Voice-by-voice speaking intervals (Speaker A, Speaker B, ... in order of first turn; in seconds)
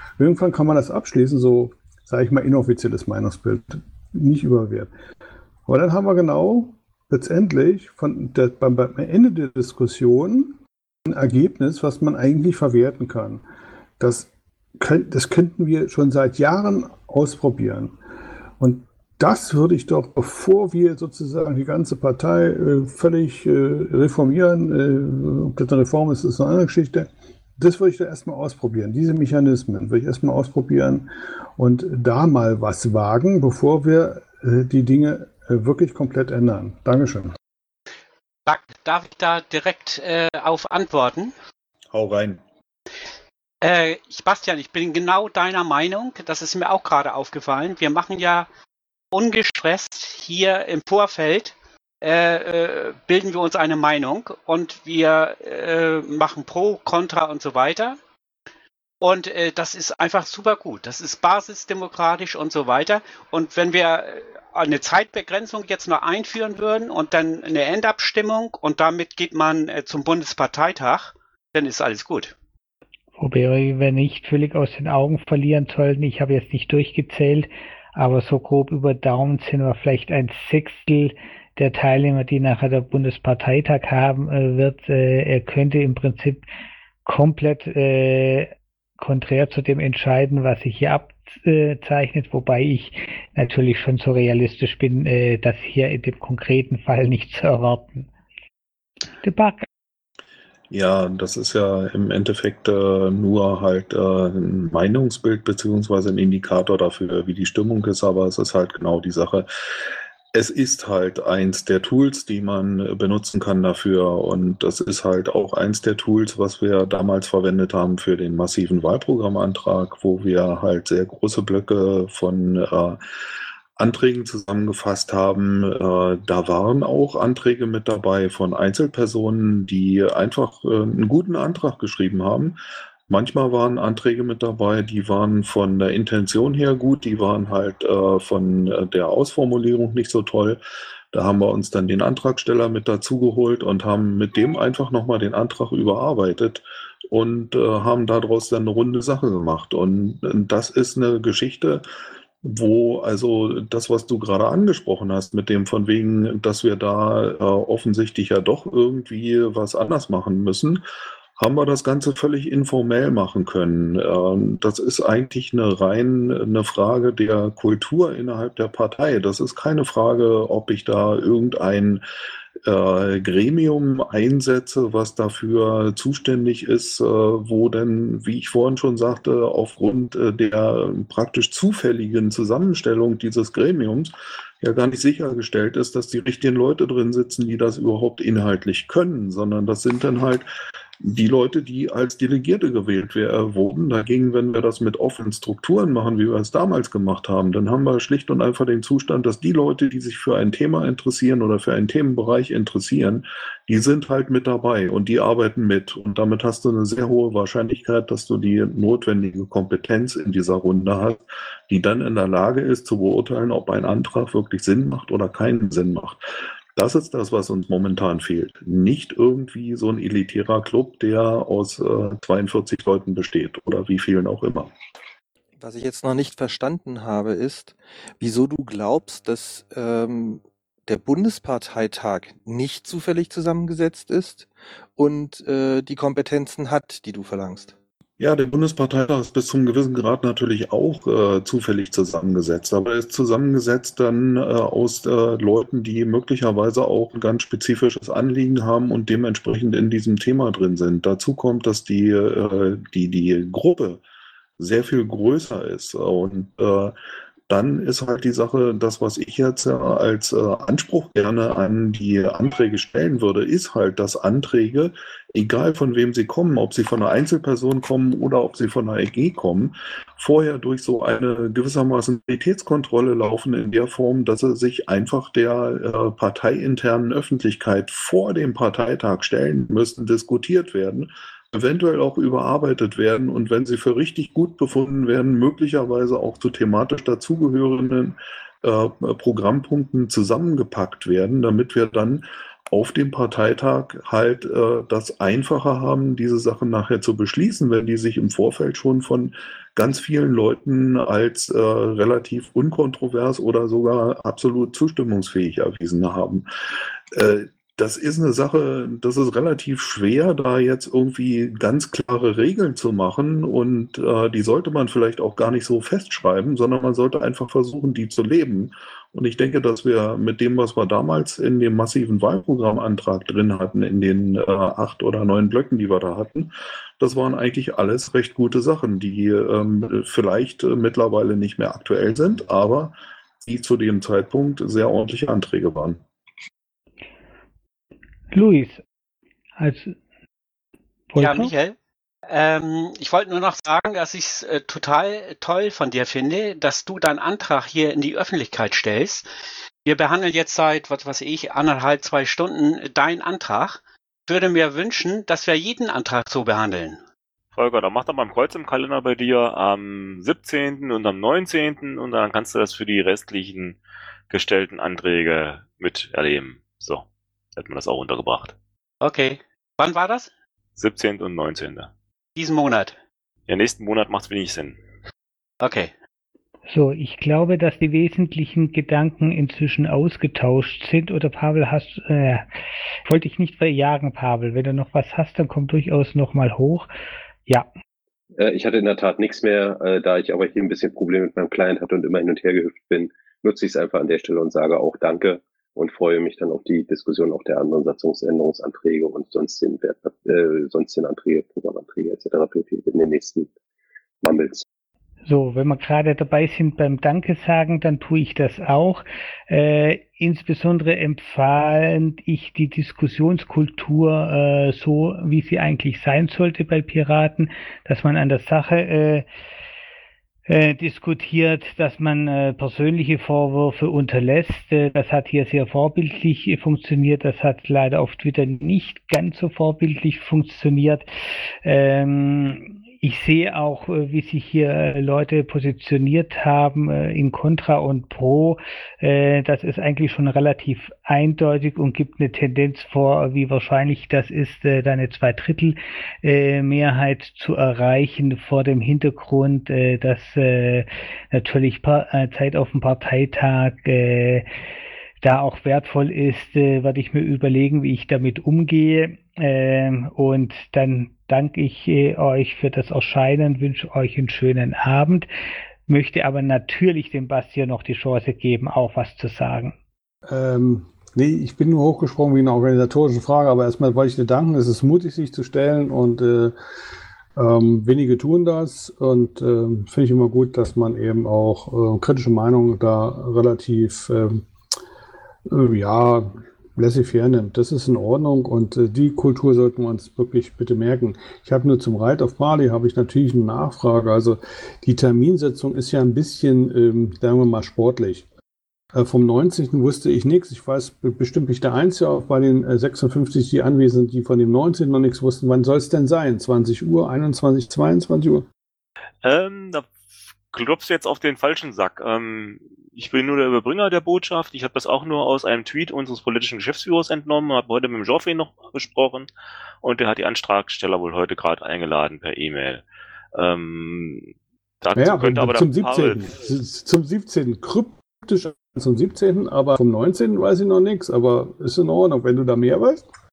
Speaker A: 0.2-4.9, 5.7-13.4, 14.0-17.9, 18.6-37.3, 470.3-476.6, 477.4-484.5, 485.5-498.2, 498.9-508.5, 525.0-533.1
Speaker B: 38.5-41.3, 43.6-48.5, 49.1-58.0, 59.0-72.3, 341.2-341.8, 342.3-349.3, 349.8-357.0, 369.0-370.3, 372.4-373.0, 375.6-375.9
Speaker C: 41.9-42.4, 100.7-109.5, 110.3-123.0, 123.8-132.6, 133.1-140.6, 141.1-151.8, 152.4-160.8, 161.4-172.0, 172.7-190.5, 191.0-216.2, 216.8-224.7, 238.2-254.0, 254.6-256.9, 257.5-306.5, 307.1-336.0
Speaker D: 73.2-86.4, 87.0-98.1, 99.2-99.7, 338.3-338.8, 339.6-339.9, 341.1-341.5, 376.7-382.4, 383.1-386.9, 405.3-419.2, 420.5-431.1, 431.6-454.4, 455.2-465.3, 465.9-469.8
Speaker E: 225.6-237.8
Speaker F: 357.5-363.8, 364.3-368.6, 370.8-371.9, 373.5-374.8, 509.2-510.0, 510.5-519.3, 519.8-526.3
Speaker G: 388.4-403.5, 404.2-404.6